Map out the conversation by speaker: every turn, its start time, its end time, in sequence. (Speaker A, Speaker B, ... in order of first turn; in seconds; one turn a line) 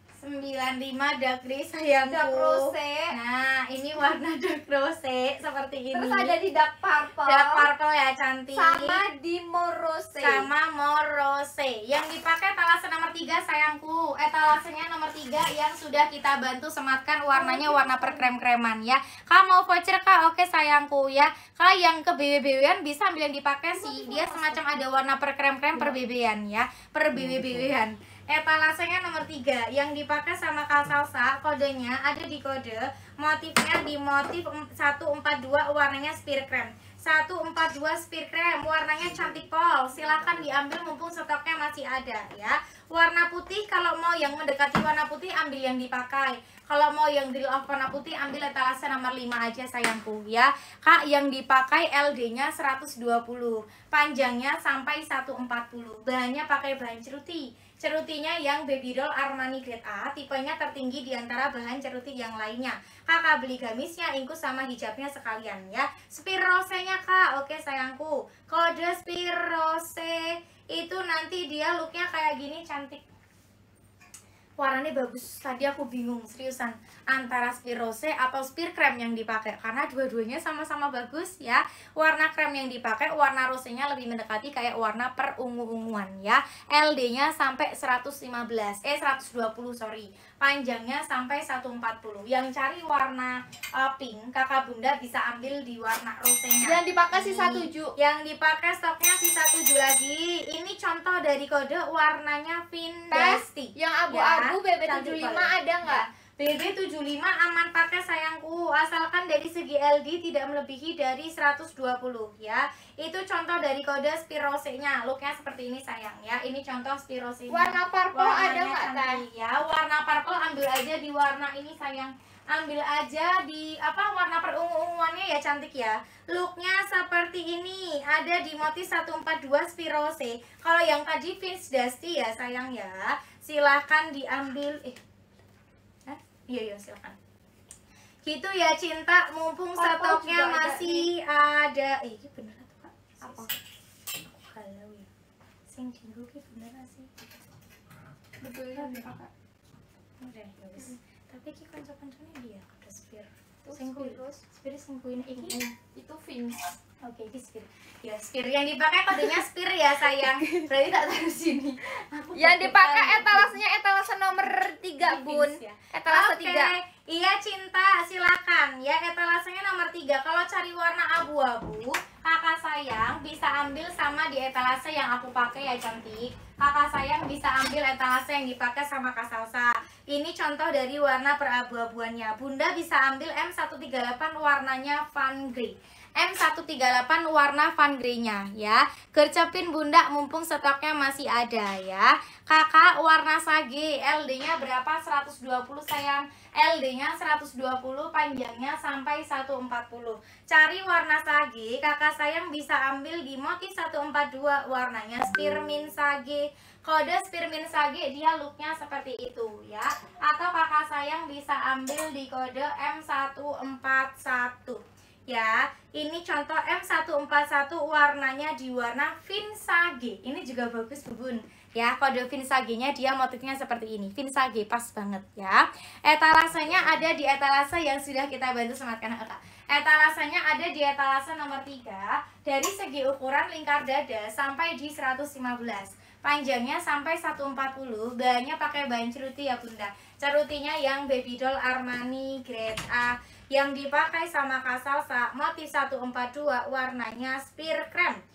Speaker A: 0.2-6.3
Speaker B: 2.1-3.1
Speaker B: 5.9-7.7
Speaker A: 7.2-9.0
Speaker B: 8.5-10.5
Speaker A: 10.2-73.0
Speaker B: 17.3-18.3
Speaker B: 23.7-24.7
Speaker A: 74.6-135.0
Speaker B: 96.6-97.9
Speaker B: 103.1-106.0
Speaker B: 117.5-119.2
Speaker A: 136.1-137.2
Speaker A: 138.2-143.6
Speaker B: 139.8-141.1
Speaker B: 143.2-143.5
Speaker A: 144.2-145.1
Speaker A: 145.7-147.1
Speaker B: 148.4-149.3
Speaker A: 148.8-149.1
Speaker A: 150.2-155.6
Speaker B: 153.6-154.4
Speaker B: 155.4-156.7
Speaker A: 157.0-163.6
Speaker B: 160.2-160.6
Speaker B: 162.3-166.7
Speaker A: 165.0-248.2